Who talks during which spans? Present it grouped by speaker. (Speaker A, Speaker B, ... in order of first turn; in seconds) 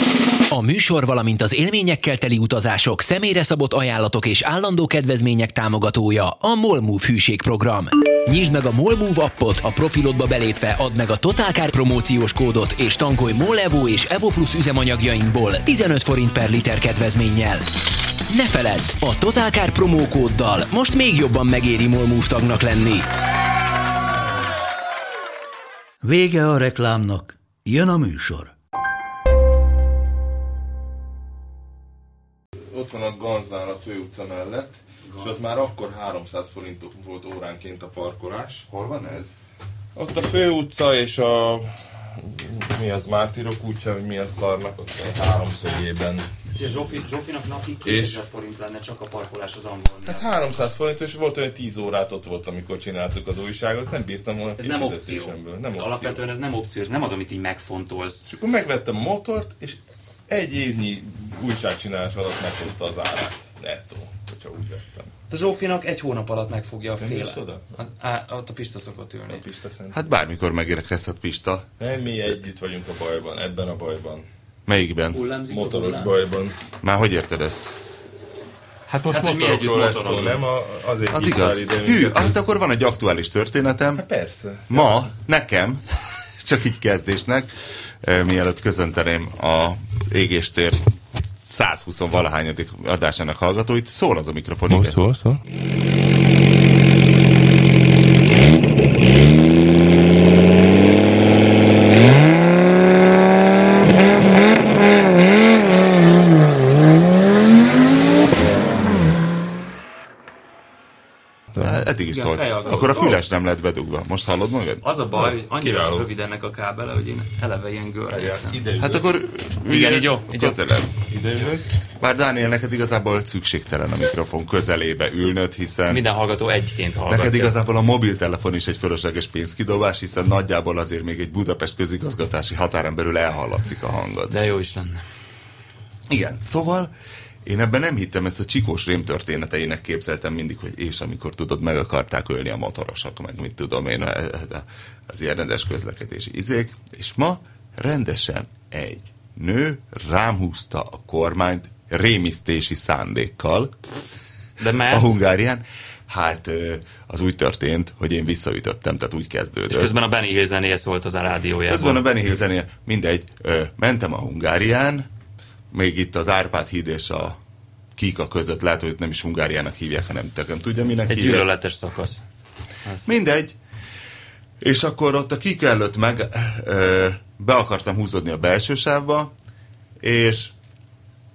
Speaker A: 0.5-17.6, 18.3-23.1
Speaker B: 26.0-28.5
Speaker C: 32.7-38.7, 40.0-46.3, 47.9-48.2, 50.1-56.2, 58.3-59.8, 60.3-65.1, 67.0-67.6, 69.3-70.1, 71.8-74.3, 75.5-76.6, 78.9-82.4, 84.0-85.0, 94.7-95.4, 115.1-116.1, 118.1-119.0, 121.1-121.7
Speaker D: 38.7-39.3, 69.9-71.7, 74.7-75.2, 76.8-77.7, 81.1-84.0, 84.7-85.8, 86.4-87.5, 88.0-95.0, 111.6-114.8, 118.8-120.9, 122.0-126.0, 127.1-134.3, 136.1-136.9, 137.4-153.8, 154.9-159.9, 161.7-165.1, 165.7-167.4, 168.0-171.5, 173.1-173.6, 174.6-179.3, 180.0-180.5
Speaker E: 46.5-50.2, 54.6-58.3, 65.3-69.4, 75.1-76.1, 79.1-80.4, 112.1-113.2, 114.8-118.7, 119.7-120.6, 125.9-127.5, 134.3-135.0, 154.6-155.1, 159.7-162.0, 171.1-172.2